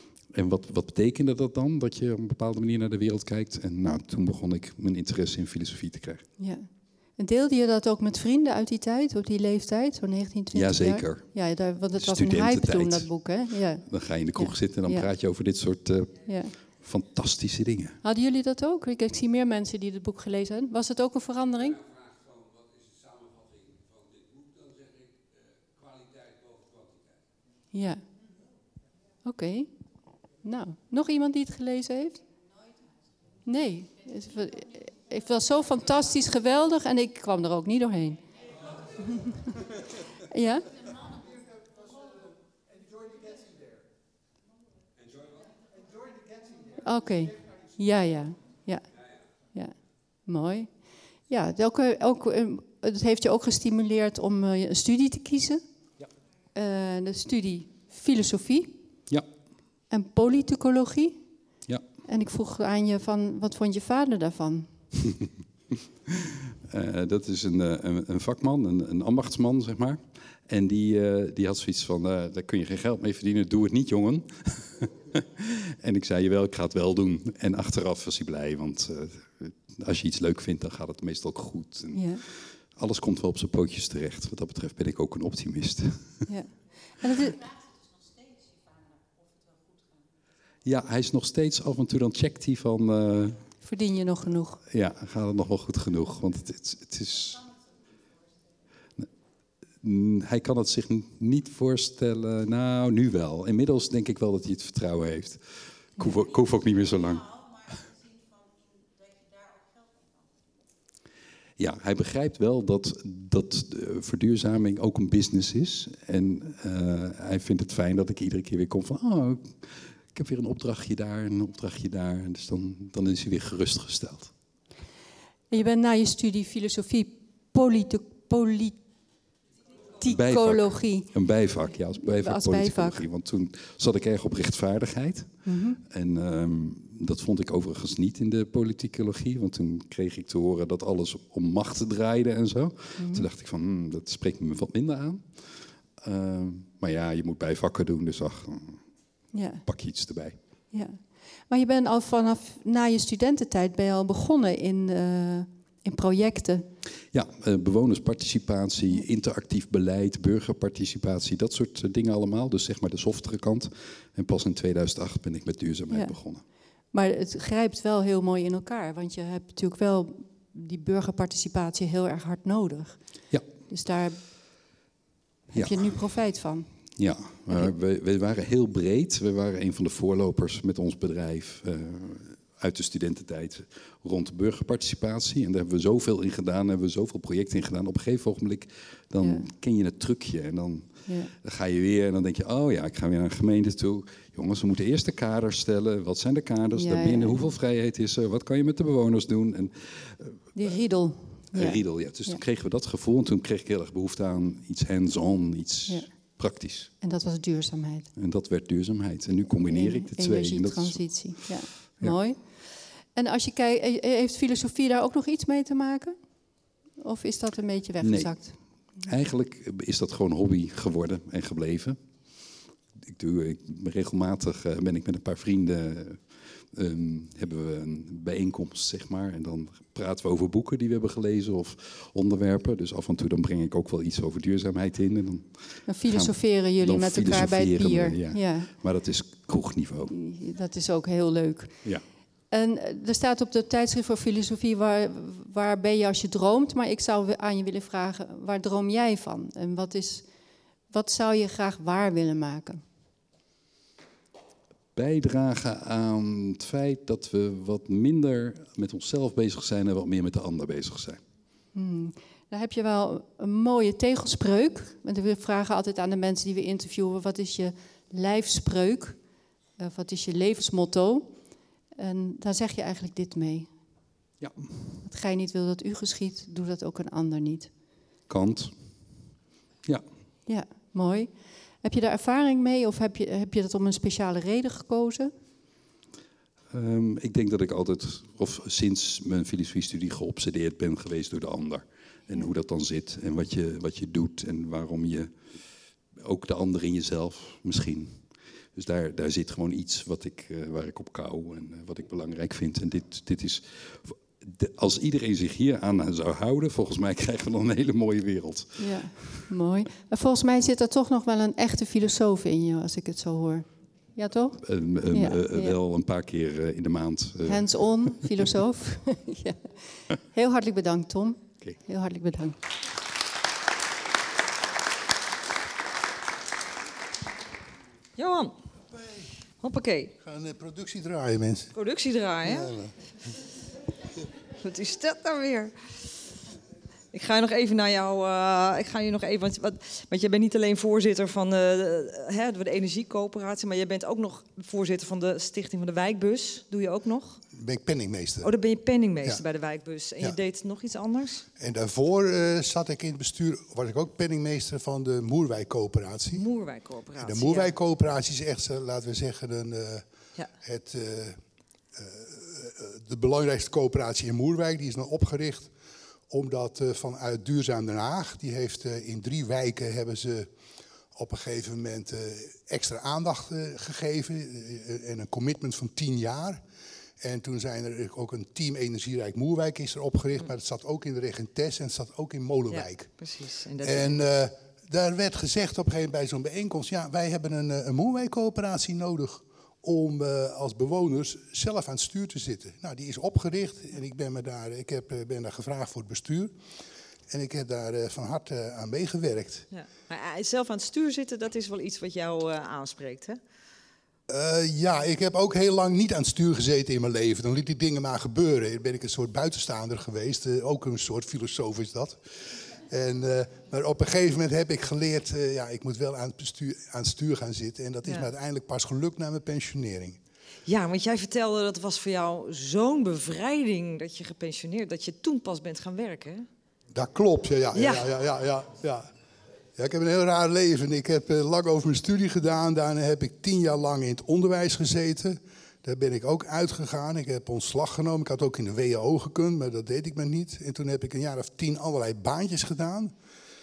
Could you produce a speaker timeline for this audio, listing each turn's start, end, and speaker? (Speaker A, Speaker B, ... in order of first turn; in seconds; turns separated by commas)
Speaker A: 0.3-6.2, Speaker B: 6.4-15.1, Speaker A: 10.5-11.3, Speaker A: 11.9-13.1, Speaker A: 13.8-16.2, Speaker B: 16.2-16.6, Speaker A: 16.8-18.0, Speaker B: 18.0-21.8, Speaker B: 27.7-28.0, Speaker B: 29.2-29.7, Speaker B: 30.4-32.2, Speaker B: 33.4-38.2, Speaker B: 39.0-39.4, Speaker B: 40.3-40.7, Speaker B: 46.8-48.9, Speaker B: 50.2-50.7, Speaker B: 51.3-55.6, Speaker B: 56.5-58.8, Speaker B: 59.9-61.2, Speaker B: 62.0-64.7, Speaker A: 66.1-86.1, Speaker B: 81.9-82.2, Speaker B: 86.2-87.4, Speaker A: 90.6-93.4, Speaker B: 93.6-94.6, Speaker A: 94.7-97.5, Speaker A: 99.8-107.6, Speaker A: 111.6-124.3, Speaker B: 125.5-128.8, Speaker B: 130.0-131.1, Speaker A: 130.1-148.8, Speaker B: 132.0-133.0, Speaker B: 135.4-135.8, Speaker B: 143.0-143.3, Speaker B: 149.3-149.6, Speaker A: 149.6-150.4, Speaker B: 150.7-156.7, Speaker A: 157.1-166.4, Speaker B: 165.9-166.2, Speaker B: 166.9-173.0, Speaker B: 173.7-174.2, Speaker B: 175.5-176.7, Speaker A: 175.5-176.0, Speaker A: 177.0-200.5, Speaker B: 189.2-189.5, Speaker B: 191.1-191.3, Speaker B: 196.8-197.5, Speaker B: 200.5-202.4, Speaker A: 201.5-206.9, Speaker B: 207.0-208.1, Speaker A: 208.2-212.2, Speaker B: 209.7-216.2, Speaker B: 217.0-218.6, Speaker A: 218.0-218.3, Speaker A: 219.0-222.0, Speaker A: 223.0-240.1, Speaker B: 235.9-238.7, Speaker B: 240.1-241.8, Speaker B: 242.5-250.2, Speaker B: 250.9-252.8, Speaker A: 254.9-261.2, Speaker B: 261.7-269.2, Speaker B: 269.8-271.3, Speaker B: 271.9-273.7, Speaker A: 274.4-274.7, Speaker B: 275.0-277.7, Speaker A: 278.3-279.1, Speaker B: 280.5-281.3, Speaker B: 281.8-285.3, Speaker A: 286.7-295.3, Speaker A: 296.1-309.4, Speaker B: 308.8-315.8, Speaker A: 314.6-318.3, Speaker B: 317.4-322.6, Speaker C: 328.2-328.5, Speaker D: 328.9-329.3, Speaker C: 329.6-330.1, Speaker D: 330.2-331.7, Speaker C: 331.7-332.7, Speaker D: 332.4-332.9, Speaker C: 334.6-335.7, Speaker C: 337.1-347.4, Speaker D: 347.5-348.5, Speaker C: 348.4-351.4, Speaker D: 351.6-356.4, Speaker C: 356.3-357.7, Speaker D: 357.2-360.0, Speaker D: 360.6-361.4, Speaker D: 361.9-365.7, Speaker D: 366.3-370.5, Speaker D: 371.1-376.6, Speaker D: 377.2-383.1, Speaker C: 382.7-384.2, Speaker D: 383.8-396.5, Speaker D: 397.3-399.6, Speaker C: 399.7-403.4, Speaker D: 404.3-412.2, Speaker D: 412.9-420.2, Speaker C: 420.6-426.5, Speaker D: 426.9-429.1, Speaker C: 427.7-428.1, Speaker D: 429.8-443.1